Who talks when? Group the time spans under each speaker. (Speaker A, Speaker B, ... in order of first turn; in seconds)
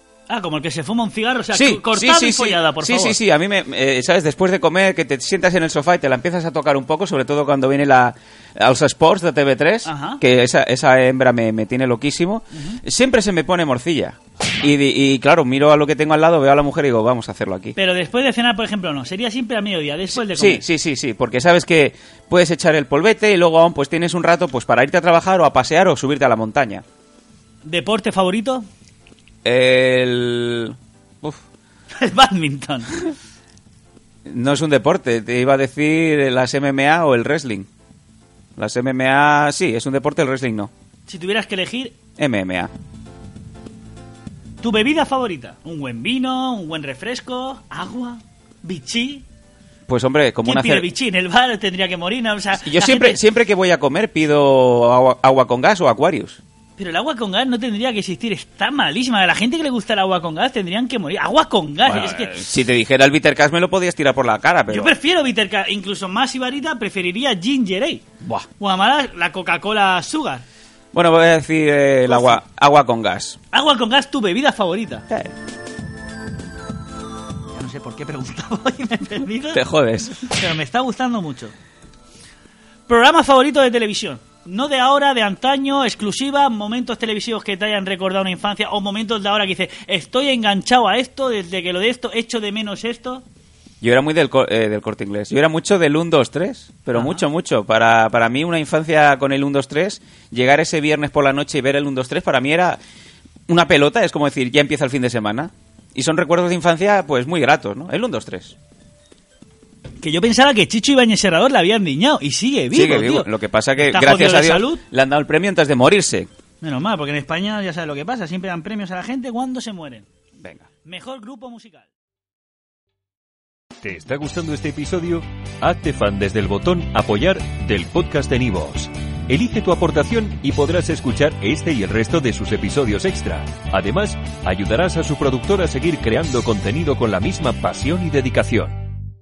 Speaker A: 0.3-3.2, 9.8-10.2, 12.5-12.8, 17.7-20.6, 27.6-28.6, 32.0-32.9, 41.1-42.0, 44.6-49.2, 50.4-53.2, 56.8-62.4, 64.7-68.0, 68.6-70.4, 72.1-72.4, 73.5-75.1, 77.5-79.6, 80.2-81.5, 82.9-93.2, 96.9-97.2, 110.0-114.8, 116.6-120.0, 120.8-121.9
Speaker B: 1.5-17.7, 20.1-26.8, 29.4-31.4, 34.3-37.7, 38.6-40.7, 42.2-42.7, 49.9-50.9, 52.6-56.4, 61.8-64.9, 70.9-73.4, 79.5-80.2, 93.8-102.8, 103.5-108.5, 112.7-116.3, 120.4-120.7
Speaker C: 123.8-138.8